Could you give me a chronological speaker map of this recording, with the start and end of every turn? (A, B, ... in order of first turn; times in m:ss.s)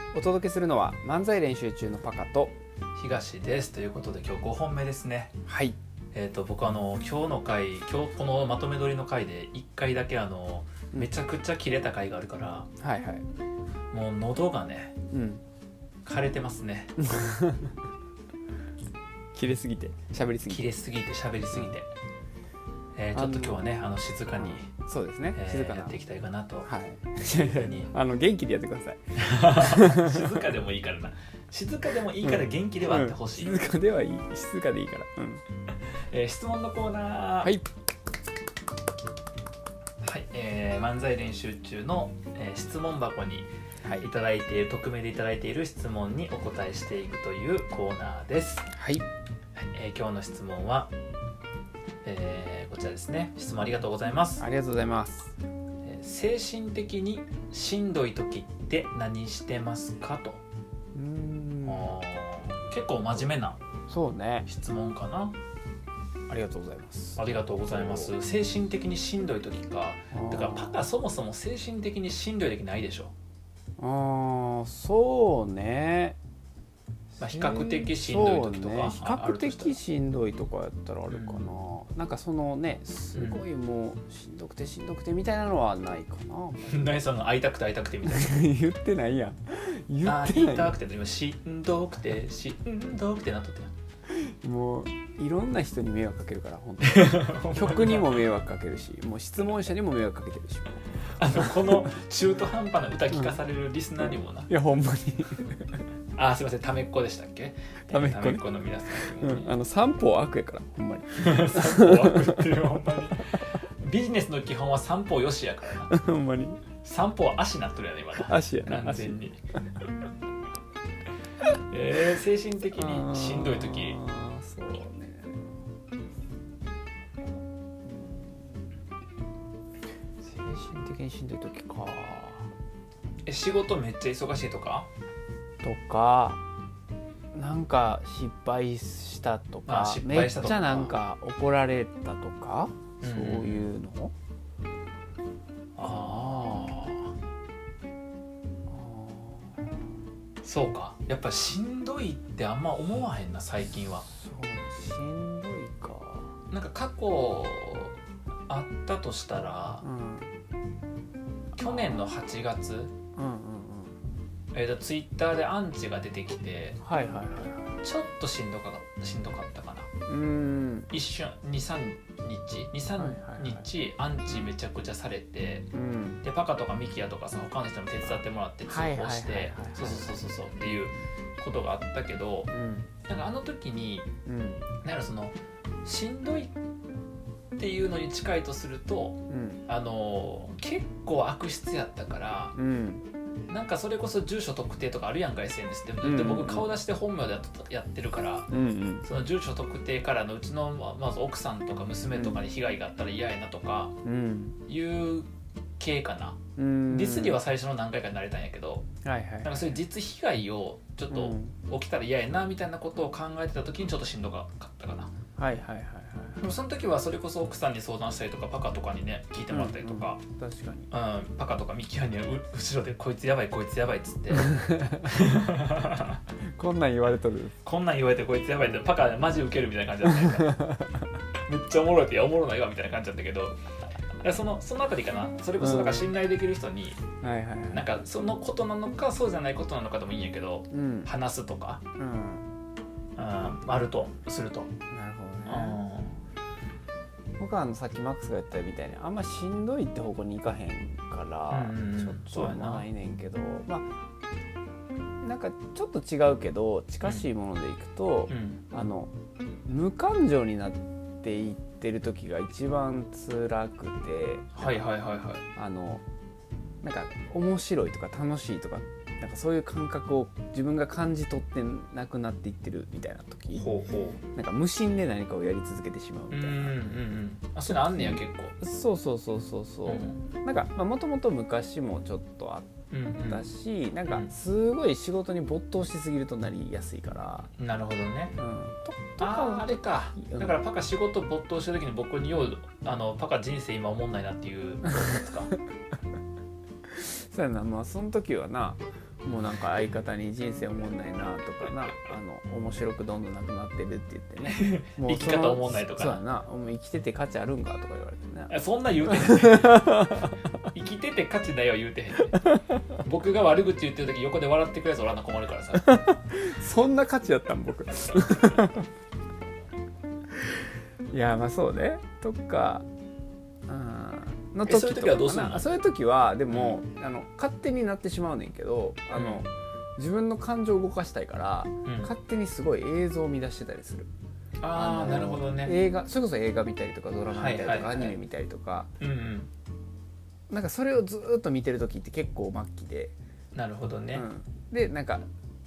0:00.1-0:02.6 A
0:03.0-0:05.3 B
0:05.5-0:05.8 A
0:06.1-0:12.7 B
0:12.8-0:13.3 A
0:13.9-0:15.0 B
0:15.1-0:15.4 A
0:16.0-0:16.9 B
0:17.0-0:17.8 A
0:19.3-0:20.7 A
0:20.5-0:21.9 B
0:23.0-0:24.7 B
0:23.1-0:23.7 A
0:24.4-0:26.0 A
0:25.3-0:26.7 B
0:26.6-0:30.3 A
0:27.3-0:27.9 B
0:29.2-0:33.6 B
0:32.2-0:35.4 A
0:35.8-0:37.6 B
0:37.4-0:37.7 A
0:40.0-0:43.5 B
0:43.8-0:44.1 A
0:44.0-0:48.7 B
0:48.8-0:49.1 A
0:49.7-0:50.9 B
0:52.0-0:54.4 B
0:54.4-0:55.3 A
0:55.8-1:00.4 B
1:00.9-1:02.0 A
1:01.6-1:03.6 B
1:03.9-1:04.5 A
1:04.5-1:05.4 B
1:06.3-1:08.1 A
1:07.2-1:13.1 B
1:10.1-1:10.8 A
1:13.8-1:16.2 A
1:17.2-1:27.0 A
1:17.2-1:19.8 B
1:21.1-1:21.5 B
1:23.2-1:23.4 B
1:26.7-1:28.4 B
1:28.0-1:30.8 A
1:30.0-1:33.7 B
1:34.1-1:41.6 A
1:36.8-1:38.3 B
1:41.2-1:44.5 B
1:43.1-1:43.4 A
1:44.5-1:45.8 A
1:46.2-1:49.5 B
1:47.9-1:52.4 A
1:51.2-1:55.9 B
1:55.9-1:56.6 A
1:56.8-1:59.4 B
1:58.2-1:59.2 A
2:01.7-2:04.0 B
2:02.8-2:05.5 A
2:07.8-2:08.8 A
2:10.2-2:12.5 A
2:13.2-2:14.9 B
2:15.6-2:16.4 A
2:17.3-2:24.1 A
2:19.7-2:21.0 B
2:23.0-2:23.7 B
2:25.8-2:27.1 B
2:25.8-2:26.8 A
2:28.7-2:29.7 A
2:30.4-2:34.1 B
2:34.1-2:36.4 A
2:36.5-2:38.0 B
2:38.5-2:39.8 B
2:39.8-2:40.3 A
2:41.6-2:42.9 B
2:41.6-2:42.1 A
2:43.2-2:44.0 A
2:44.5-2:46.8 B
2:46.8-2:47.8 A
2:47.8-2:49.9 B
2:50.1-2:50.9 A
2:50.9-2:55.7 B
2:53.0-2:53.7 A
2:55.7-2:56.2 A
2:56.2-3:02.5 B
2:58.7-3:00.3 A
3:02.5-3:02.9 A
3:03.1-3:04.1 B
3:04.3-3:04.7 A
3:04.8-3:06.5 B
3:07.6-3:12.5 B
3:09.3-3:09.6 A
3:12.6-3:13.0 A
3:13.5-3:18.5 B
3:16.0-3:16.7 A
3:18.5-3:19.1 A
3:19.0-3:24.0 B
3:22.1-3:22.4 A
3:24.0-3:24.6 A
3:24.7-3:25.3 B
3:25.8-3:26.4 B
3:26.6-3:27.4 A
3:26.9-3:28.9 B
3:29.0-3:29.8 A
3:29.4-3:35.1 B
3:31.1-3:31.6 A
3:35.4-3:36.4 A
3:36.4-3:40.2 B
3:39.5-3:40.9 A
3:40.9-3:46.2 B
3:44.3-3:45.1 A
3:46.6-3:47.6 A
3:47.6-3:50.6 B
3:50.1-3:50.9 A
3:51.5-3:53.6 B
3:54.2-3:57.0 B
3:55.6-3:56.1 A
3:57.2-3:57.9 A
3:57.7-4:01.8 B
4:00.7-4:01.1 A
4:02.0-4:02.4 A
4:03.2-4:04.7 B
4:04.9-4:05.8 A
4:05.5-4:06.2 B
4:07.4-4:13.9 A
4:11.5-4:12.9 B
4:15.2-4:19.1 A
4:18.3-4:18.6 B
4:19.7-4:24.8 A
4:24.6-4:25.4 B
4:25.6-4:26.0 A
4:26.8-4:33.7 A
4:33.6-4:34.2 B
4:34.3-4:37.0 A
4:36.3-4:38.5 B
4:37.7-4:47.5 A
4:39.9-4:40.2 B
4:42.9-4:43.5 B
4:47.6-4:48.4 B
4:48.4-4:50.6 A
4:49.2-4:55.5 B
4:56.9-5:10.4 A
5:04.5-5:06.2 B
5:08.5-5:10.1 B
5:10.7-5:12.5 B
5:12.2-5:12.8 A
5:13.0-5:16.0 B
5:15.8-5:18.9 A
5:21.1-5:22.8 A
5:23.7-5:34.1 A
5:24.6-5:25.7 B
5:26.5-5:26.8 B
5:29.2-5:29.5 B
5:31.9-5:32.1 B
5:34.6-5:35.8 B
5:34.7-5:38.9 A
5:37.3-5:38.2 B
5:39.0-5:39.5 B
5:40.5-5:43.2 A
5:43.5-5:44.2 B
5:44.1-5:45.2 A